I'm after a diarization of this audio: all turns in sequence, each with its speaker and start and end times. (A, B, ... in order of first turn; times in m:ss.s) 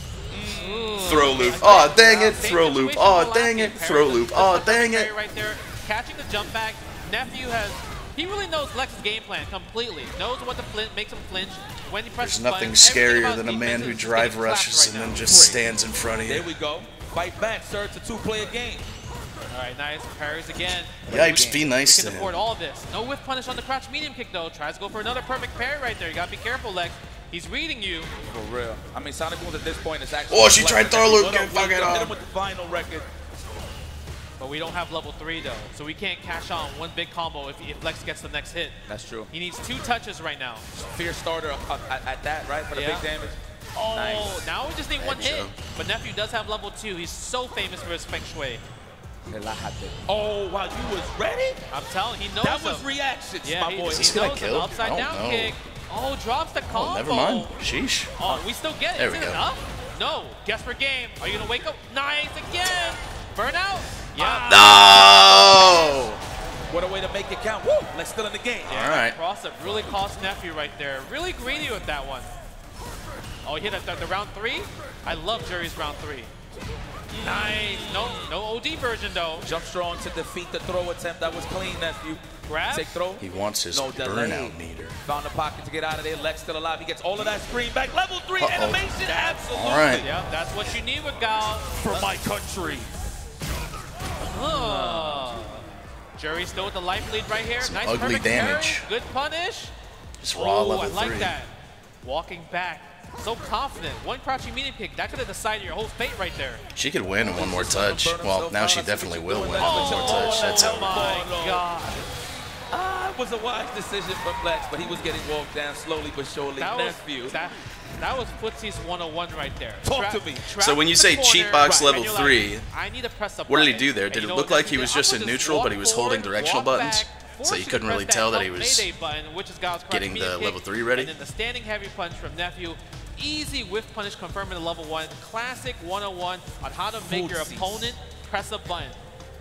0:00.3-0:02.4 A
0:00.5-0:15.3 B
0:01.0-0:05.1 C
0:12.2-0:16.5 C
0:15.2-0:15.6 A
0:16.2-0:18.9 A
0:19.5-0:21.0 B
0:21.0-0:21.7 A
0:21.0-0:22.4 C
0:21.8-0:28.1 B
0:28.3-0:33.1 A
0:30.3-0:32.1 C
0:34.4-0:38.8 B
0:38.8-0:39.3 A
0:39.3-0:40.6 B
0:40.7-0:43.4 A
0:42.7-0:43.1 B
0:43.7-0:48.6 B
0:43.9-0:44.4 A
0:45.0-0:45.5 C
0:49.3-0:51.6 A
0:51.7-0:52.8 B
0:52.4-0:54.2 A
0:53.4-0:57.5 B
0:53.9-0:55.5 C
0:56.7-0:58.1 C
0:58.2-1:06.0 B
0:59.0-0:59.4 C
1:04.3-1:06.2 C
1:06.7-1:08.8 A
1:08.6-1:09.2 C
1:08.7-1:12.3 B
1:13.4-1:16.3 B
1:17.1-1:19.4 B
1:17.1-1:18.3 A
1:19.4-1:30.1 A
1:22.4-1:22.9 B
1:23.2-1:25.0 C
1:28.4-1:28.8 C
1:29.5-1:30.0 C
1:30.0-1:32.1 B
1:31.8-1:32.9 A
1:34.2-1:35.6 B
1:34.2-1:35.8 A
1:36.2-1:39.7 B
1:37.6-1:38.8 C
1:40.2-1:41.3 C
1:40.3-1:41.5 B
1:42.0-1:46.6 B
1:46.7-1:51.0 C
1:47.2-1:51.7 A
1:49.6-1:52.0 B
1:52.7-1:57.3 A
1:56.6-2:19.0 B
1:59.8-2:00.5 A
2:00.6-2:02.6 C
2:03.5-2:08.9 C
2:09.9-2:11.1 C
2:17.0-2:17.8 A